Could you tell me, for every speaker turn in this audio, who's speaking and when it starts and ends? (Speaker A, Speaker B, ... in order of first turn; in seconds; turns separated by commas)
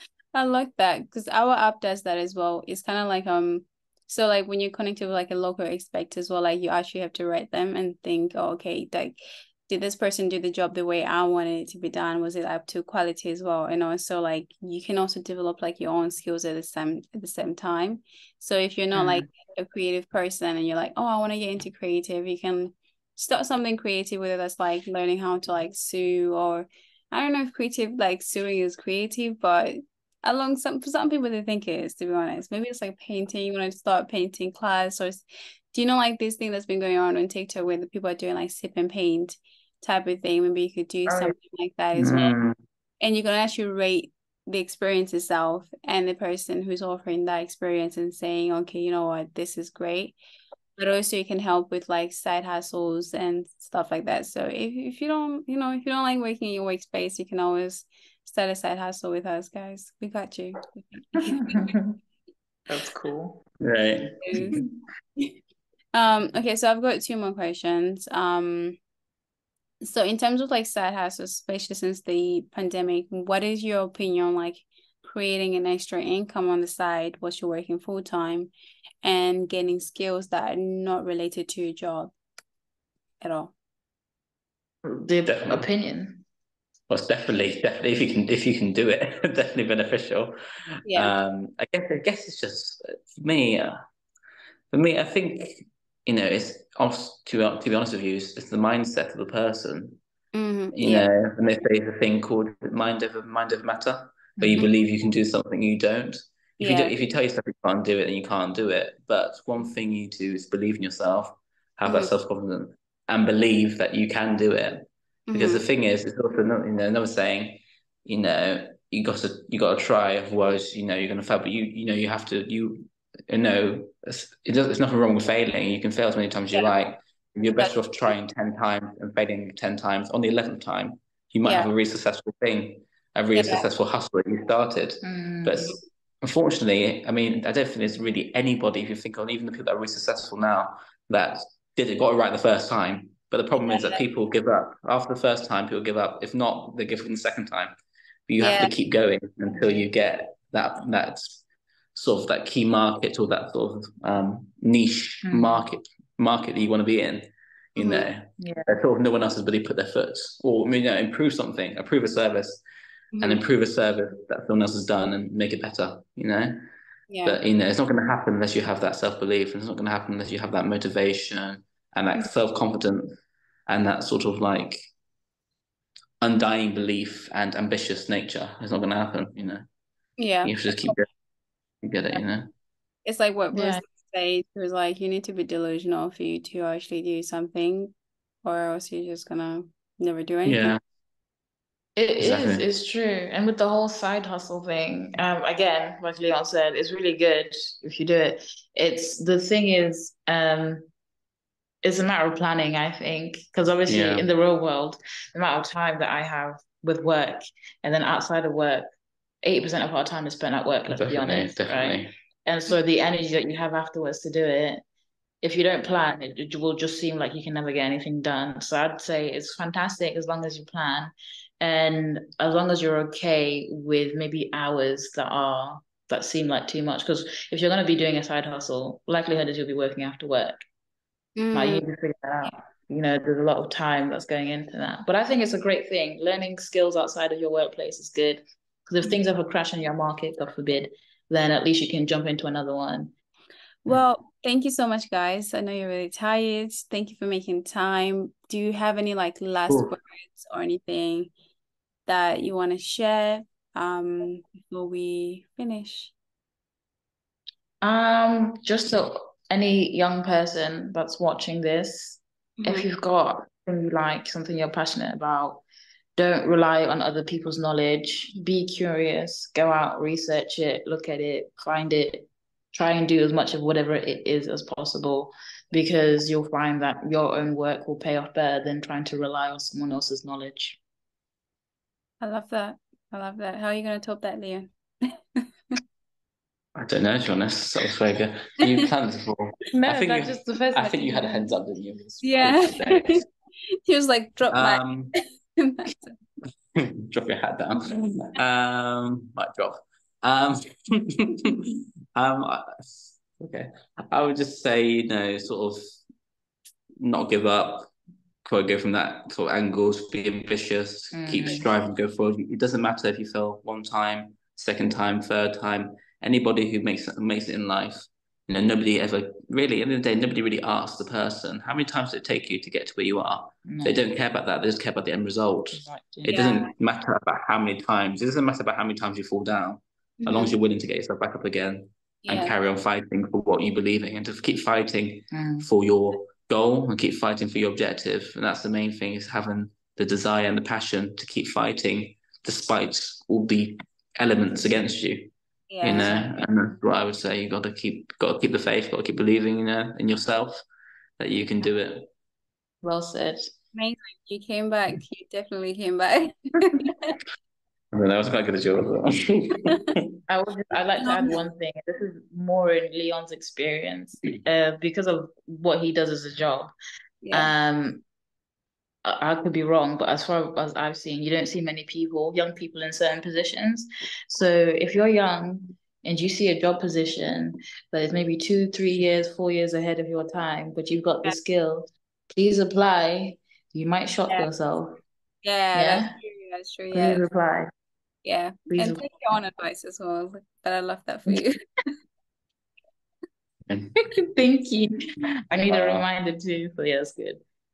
Speaker A: 0.3-42.4, Speaker B: 18.9-19.3, Speaker B: 41.1-41.4, Speaker C: 42.0-42.6, Speaker A: 43.0-50.1, Speaker A: 50.8-61.8, Speaker B: 61.2-62.0, Speaker B: 62.7-63.4, Speaker C: 63.6-64.6, Speaker A: 64.2-64.6, Speaker A: 65.9-68.8, Speaker A: 69.8-78.5, Speaker A: 79.0-82.1, Speaker A: 83.2-83.5, Speaker B: 84.8-86.2, Speaker C: 85.3-85.7, Speaker C: 86.9-93.8, Speaker A: 90.9-91.1, Speaker C: 94.7-100.0, Speaker A: 100.3-101.1, Speaker C: 100.7-147.8, Speaker B: 104.4-104.7, Speaker A: 106.6-106.9, Speaker A: 111.8-112.1, Speaker A: 115.3-115.7, Speaker A: 127.6-128.1, Speaker A: 131.4-131.7, Speaker A: 133.3-133.6, Speaker B: 135.0-135.7, Speaker A: 143.6-144.0, Speaker C: 148.3-151.4, Speaker A: 148.4-148.8, Speaker C: 151.9-162.6, Speaker B: 155.2-155.6, Speaker A: 157.8-158.1, Speaker B: 158.4-158.7, Speaker A: 163.1-163.4, Speaker C: 163.2-166.6, Speaker A: 167.1-167.4, Speaker C: 167.2-173.1, Speaker C: 173.7-174.9, Speaker C: 176.2-179.7, Speaker A: 180.2-181.0, Speaker C: 180.4-181.1, Speaker C: 181.8-182.5, Speaker A: 183.1-187.9, Speaker B: 183.5-183.8, Speaker A: 188.4-190.8, Speaker C: 190.5-190.8, Speaker B: 192.0-200.9, Speaker C: 192.2-192.7, Speaker B: 201.8-208.9, Speaker C: 203.9-204.2, Speaker B: 209.4-214.8, Speaker C: 210.9-212.1, Speaker B: 215.4-230.6, Speaker A: 231.4-231.8, Speaker B: 231.5-243.1, Speaker A: 243.8-251.3, Speaker A: 252.1-256.1, Speaker B: 257.8-265.6, Speaker B: 266.2-280.8, Speaker A: 282.2-285.8, Speaker C: 286.8-293.2, Speaker B: 289.7-291.3, Speaker A: 292.2-293.2, Speaker A: 293.9-294.8, Speaker C: 294.5-295.1, Speaker A: 295.6-296.2, Speaker C: 296.8-306.0, Speaker C: 307.0-307.9, Speaker C: 308.5-345.3, Speaker B: 311.1-311.7, Speaker B: 323.7-324.0, Speaker B: 325.7-326.4, Speaker A: 326.2-326.7, Speaker A: 330.2-330.6, Speaker A: 332.2-332.5, Speaker B: 335.3-335.7, Speaker A: 345.7-346.2, Speaker C: 345.8-350.6, Speaker B: 345.9-346.2, Speaker C: 351.2-352.1, Speaker B: 352.8-353.5, Speaker A: 353.7-357.2, Speaker C: 357.9-360.1, Speaker B: 360.3-366.7, Speaker A: 361.0-361.4, Speaker A: 367.2-367.5, Speaker B: 367.3-368.0, Speaker B: 369.1-385.0, Speaker A: 385.4-387.2, Speaker B: 385.8-386.2, Speaker B: 386.9-387.7, Speaker A: 388.2-391.6, Speaker B: 388.7-389.2, Speaker C: 393.7-393.9, Speaker B: 394.3-395.0, Speaker B: 395.5-397.4, Speaker C: 395.7-396.1